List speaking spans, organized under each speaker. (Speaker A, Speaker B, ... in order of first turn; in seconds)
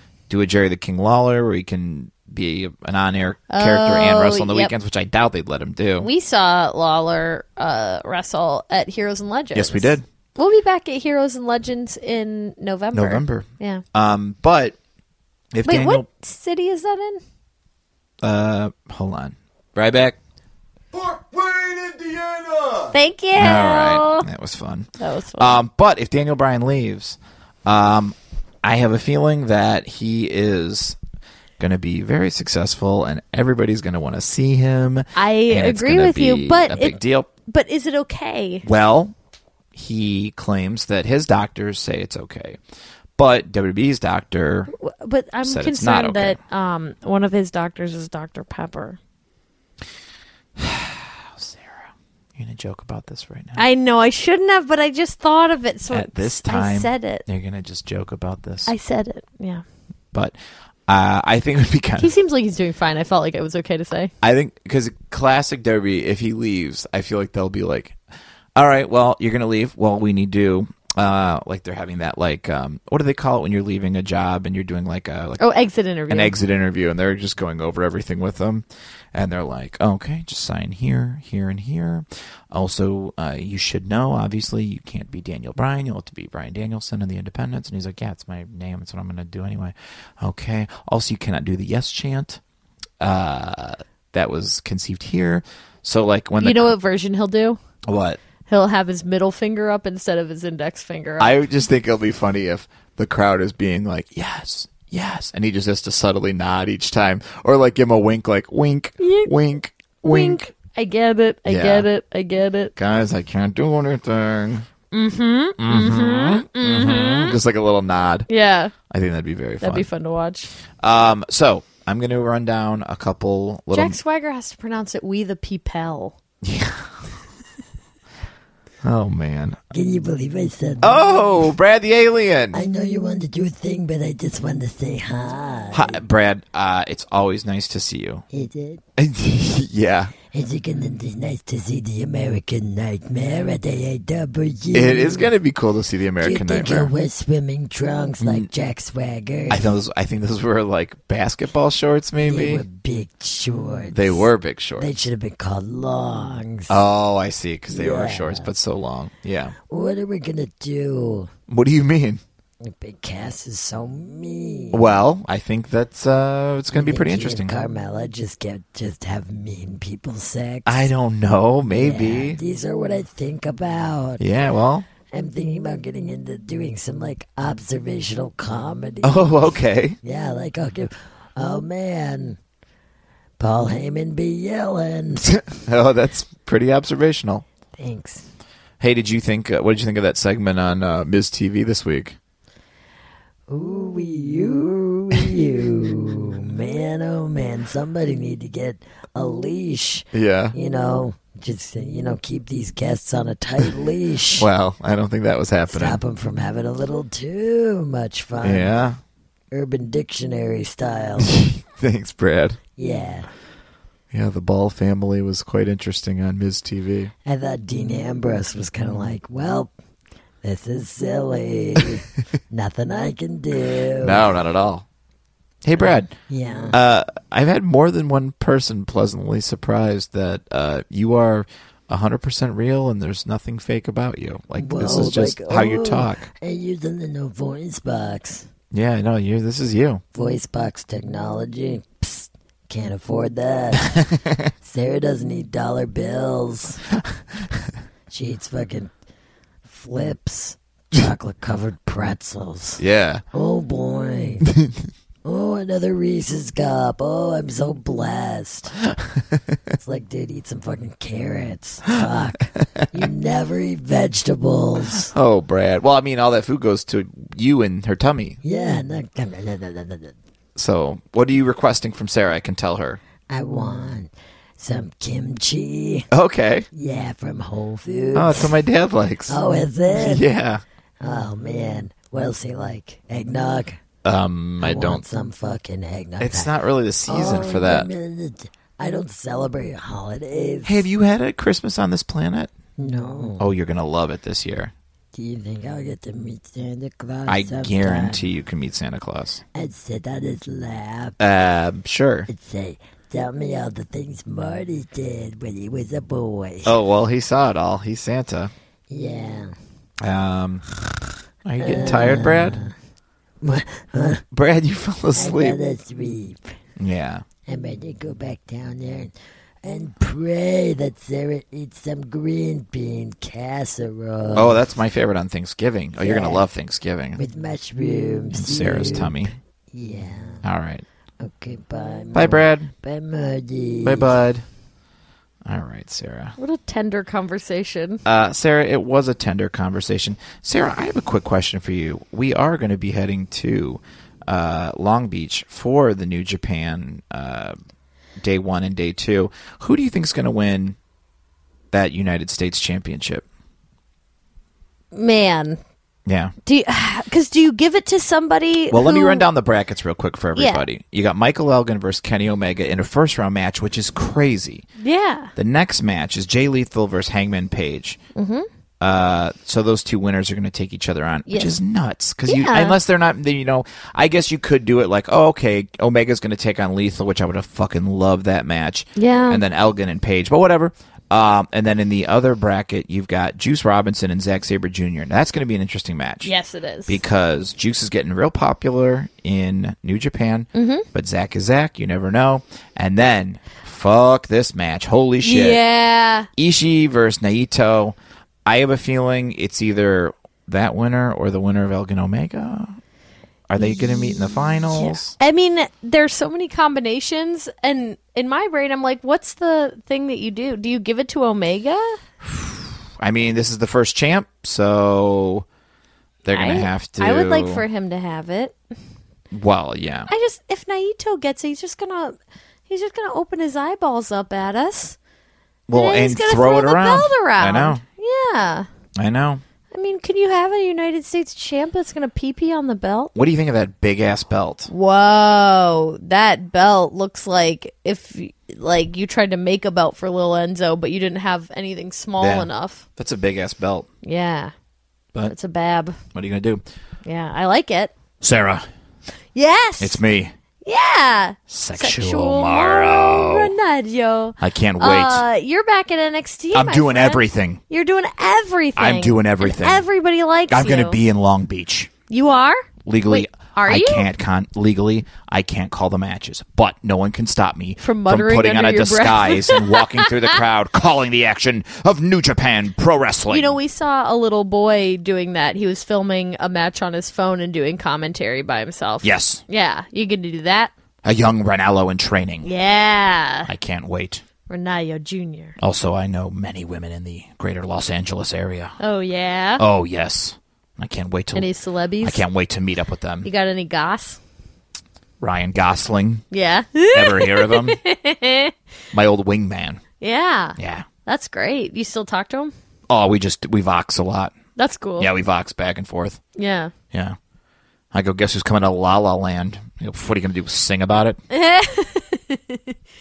Speaker A: 0.3-6.1, 9.5-10.1, 12.9-14.8, 15.5-16.1, 18.2-20.2, 20.9-31.0, 31.6-37.3, 38.6-39.1, 39.7-42.6, 43.2-44.7, 45.4-46.4, 50.6-53.6, 55.9-58.7, 60.1-62.1, 64.2-68.0, 68.6-75.4, 76.1-92.4, 93.0-96.7, 97.9-98.2, 101.2-110.5, 111.5-111.9, 112.8-114.7, 115.6-118.3, 118.9-119.9, 120.8-124.0, 126.4-126.9, 128.8-129.6, 130.8-132.6, 135.7-138.2, 139.0-140.1, 144.7-146.9, 148.2-148.5, 149.5-152.7, 153.9-154.9, 156.7-159.6, 161.5-162.2, 164.7-167.6, 170.7-172.4, 174.2-174.9, 179.0-180.0, 185.3-187.4, 188.8-192.2, 200.1-200.6, 204.4-206.0, 208.4-209.0, 211.2-212.6, 214.1-217.1, 224.0-224.8, 225.6-226.1, 226.7-236.2, 238.7-240.0, 244.0-244.5, 252.8-253.2, 264.9-268.4, 270.6-273.0, 276.1-276.7, 278.1-279.4, 279.9-280.6, 284.0-285.0, 286.2-287.9, 290.6-292.5, 293.4-294.7, 297.3-299.4, 301.2-302.3, 306.6-308.5, 310.0-310.6, 311.4-312.6, 314.3-315.6, 316.8-317.2, 324.3-327.2, 328.3-329.4, 330.4-330.8, 332.1-332.7, 333.8-334.4, 335.4-336.4, 338.1-347.6, 348.2-350.8, 351.7-353.2, 356.1-356.3, 358.7-364.7, 365.4-368.0, 368.8-386.3, 386.9-395.6, 396.4-402.8, 403.5-405.2, 412.2-415.5, 416.2-417.6, 419.3-420.1, 425.7-427.8, 429.0-429.4, 433.1-434.7, 442.2-443.9, 446.1-446.6, 448.2-448.7, 449.8-450.3, 451.5-453.5, 454.4-455.2, 456.5-457.6, 458.8-459.9, 460.5-461.9, 462.9-473.6, 479.0-479.4, 481.0-482.5, 483.5-484.2, 485.6-488.8, 489.6-491.5, 492.0-493.3, 495.2-496.2, 496.9-497.8, 498.9-499.8, 500.6-500.9, 502.9-504.4, 505.0-506.2, 507.9-511.2
Speaker B: 3.5-4.7, 6.0-13.8, 15.7-17.2, 22.9-24.3, 25.0-25.6, 35.1-38.7, 44.7-49.0, 53.6-57.2, 58.7-59.6, 62.0-64.1, 75.4-76.3, 96.4-97.6, 98.5-101.4, 109.0-109.3, 110.0-112.7, 114.9-117.4, 118.3-118.7, 119.6-120.5, 123.7-126.2, 336.4-338.0, 354.9-355.6, 356.5-359.3, 360.4-360.7, 364.8-365.3, 368.1-368.5, 371.3-371.6, 372.3-372.8, 379.0-379.4, 386.2-387.0, 390.6-390.9, 395.2-396.3, 403.8-404.0, 404.7-412.0, 416.3-418.6, 420.1-422.2, 422.7-425.0, 425.7-428.7, 429.7-433.1, 434.7-442.9, 444.0-444.5, 445.2-446.0, 447.1-447.9, 449.4-450.0, 450.6-461.0, 462.1-464.1, 467.8-470.1, 473.3-480.7, 482.4-483.5, 484.5-485.6, 488.8-489.6, 491.3-492.2, 493.2-494.2, 496.3-498.5, 500.0-502.5, 504.6-505.1, 506.4-506.7, 511.3-512.8
Speaker C: 129.7-131.4, 132.5-136.0, 138.3-138.8, 140.3-145.3, 146.2-149.7, 152.2-156.8, 157.7-158.5, 159.7-161.3, 162.6-165.0, 166.7-170.9, 171.7-174.2, 175.1-179.4, 180.0-182.4, 183.4-185.5, 187.8-188.3, 193.5-204.5, 205.7-208.7, 209.5-211.3, 212.8-213.3, 217.2-219.7, 220.4-224.3, 225.8-226.8, 234.6-238.5, 240.1-244.1, 244.6-246.9, 248.1-248.9, 249.7-252.8, 253.3-254.5, 255.2-258.9, 259.8-265.1, 268.4-270.1, 273.3-276.1, 276.7-278.6, 279.3-280.2, 281.0-283.8, 284.6-286.5, 287.1-290.9, 292.8-293.5, 295.1-298.2, 299.5-301.2, 302.3-306.8, 308.9-309.6, 311.6-312.7, 313.4-314.2, 315.1-316.6, 317.5-324.6, 326.0-326.4, 327.2-330.4, 331.2-334.2